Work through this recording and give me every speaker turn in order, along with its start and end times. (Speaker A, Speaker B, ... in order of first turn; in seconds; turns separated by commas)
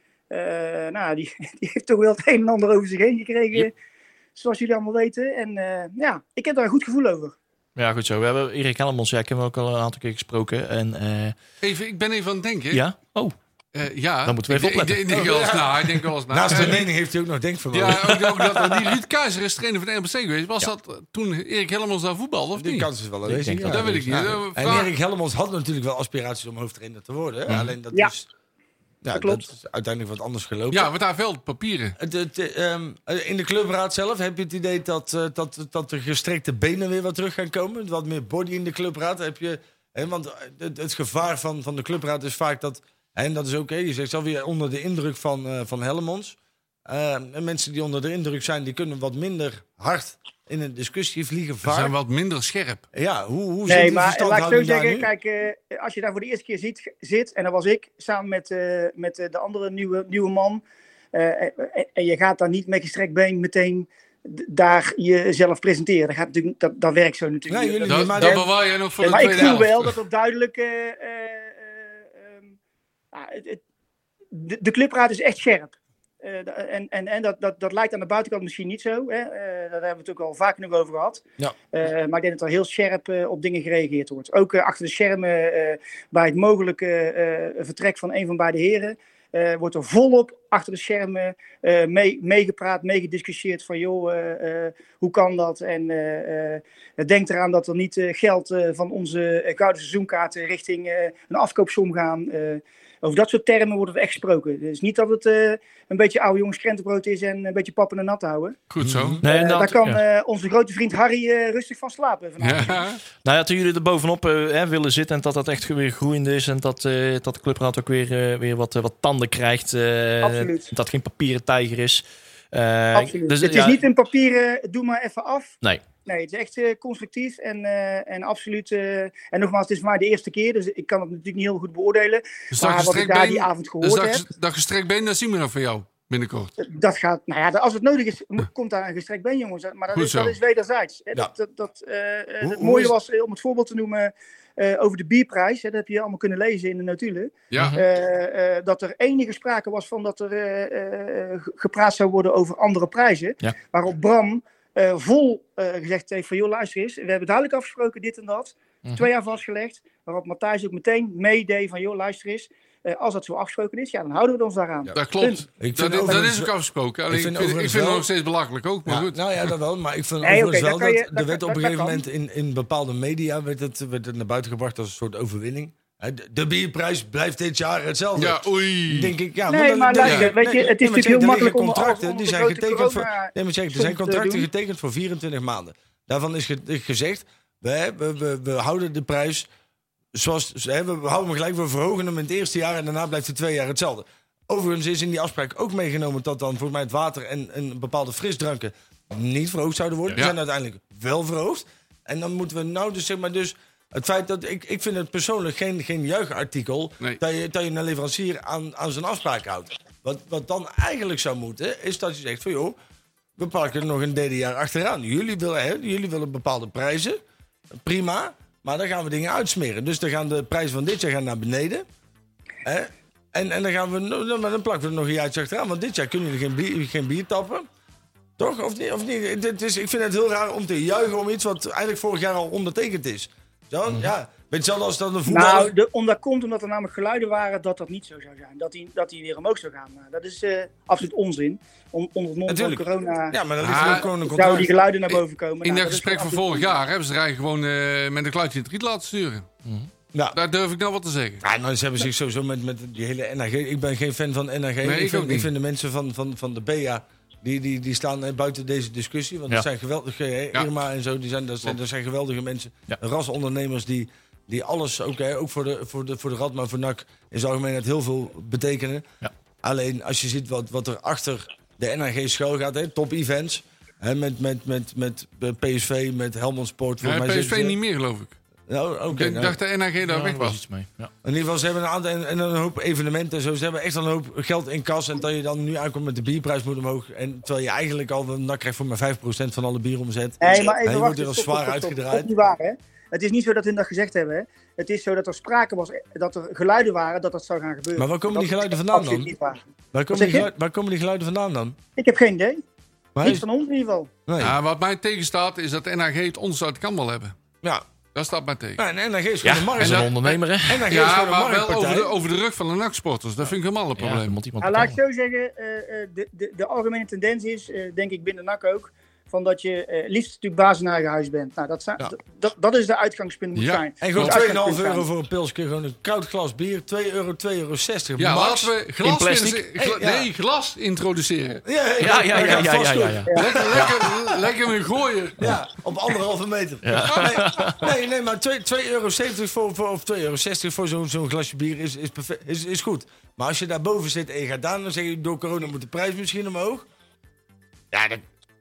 Speaker A: 0.3-3.7, Speaker A: 4.3-7.4, Speaker B: 7.8-11.4, Speaker C: 11.6-12.8, Speaker B: 12.7-13.3, Speaker C: 13.7-16.9, Speaker B: 14.3-15.1, Speaker D: 15.1-18.6, Speaker C: 17.7-22.9, Speaker D: 22.6-28.3, Speaker B: 23.3-24.4, Speaker C: 23.7-24.9, Speaker D: 29.0-30.9, Speaker A: 29.1-29.5, Speaker C: 30.7-32.0, Speaker D: 32.0-51.9, Speaker C: 51.6-52.8, Speaker D: 52.9-55.1, Speaker A: 53.7-68.4, Speaker D: 67.5-68.5, Speaker C: 67.9-69.9, Speaker A: 69.0-72.5, Speaker A: 73.1-73.6, Speaker A: 74.3-108.6, Speaker C: 108.7-109.2, Speaker D: 108.8-109.2, Speaker B: 109.2-110.0, Speaker A: 109.2-112.9, Speaker C: 112.4-113.0, Speaker B: 113.2-123.8, Speaker A: 120.2-120.7, Speaker A: 122.9-125.5, Speaker A: 126.1-134.3, Speaker C: 132.5-136.5, Speaker A: 136.6-165.5, Speaker C: 139.9-140.4, Speaker D: 142.4-142.9, Speaker C: 164.9-169.5, Speaker D: 165.6-166.5, Speaker D: 167.1-168.1, Speaker D: 168.9-189.5, Speaker A: 170.2-172.0, Speaker C: 178.2-179.2, Speaker A: 179.5-184.5, Speaker C: 180.0-180.3, Speaker D: 190.1-212.8, Speaker D: 213.4-217.2, Speaker D: 217.8-221.8, Speaker D: 222.7-227.7, Speaker D: 228.4-235.7, Speaker A: 235.3-246.8, Speaker D: 242.5-244.8, Speaker C: 243.6-244.1, Speaker C: 245.6-249.5, Speaker B: 249.6-249.9, Speaker C: 250.3-251.4, Speaker D: 251.4-269.1, Speaker C: 254.8-255.5, Speaker D: 269.6-277.8, Speaker C: 277.0-278.4, Speaker D: 278.7-279.6, Speaker C: 279.1-280.6, Speaker B: 280.0-281.1, Speaker D: 281.2-292.3, Speaker A: 290.4-299.6, Speaker D: 298.0-299.3, Speaker D: 299.9-301.8, Speaker A: 300.1-300.5, Speaker A: 302.0-302.6, Speaker D: 303.1-303.4, Speaker A: 303.2-304.1, Speaker D: 304.3-304.6, Speaker C: 304.4-307.4, Speaker C: 308.1-308.8, Speaker D: 308.8-312.1, Speaker B: 309.4-310.9, Speaker C: 309.8-314.4, Speaker B: 314.0-315.0, Speaker A: 314.6-325.1, Speaker C: 323.6-324.4, Speaker D: 324.0-328.7, Speaker C: 328.2-331.6, Speaker B: 329.0-329.6, Speaker D: 329.8-330.3, Speaker D: 331.6-334.2, Speaker B: 332.0-333.4, Speaker C: 332.3-332.6, Speaker C: 333.4-335.6, Speaker D: 335.4-346.9, Speaker B: 336.8-337.9, Speaker C: 337.1-337.4, Speaker D: 347.9-348.2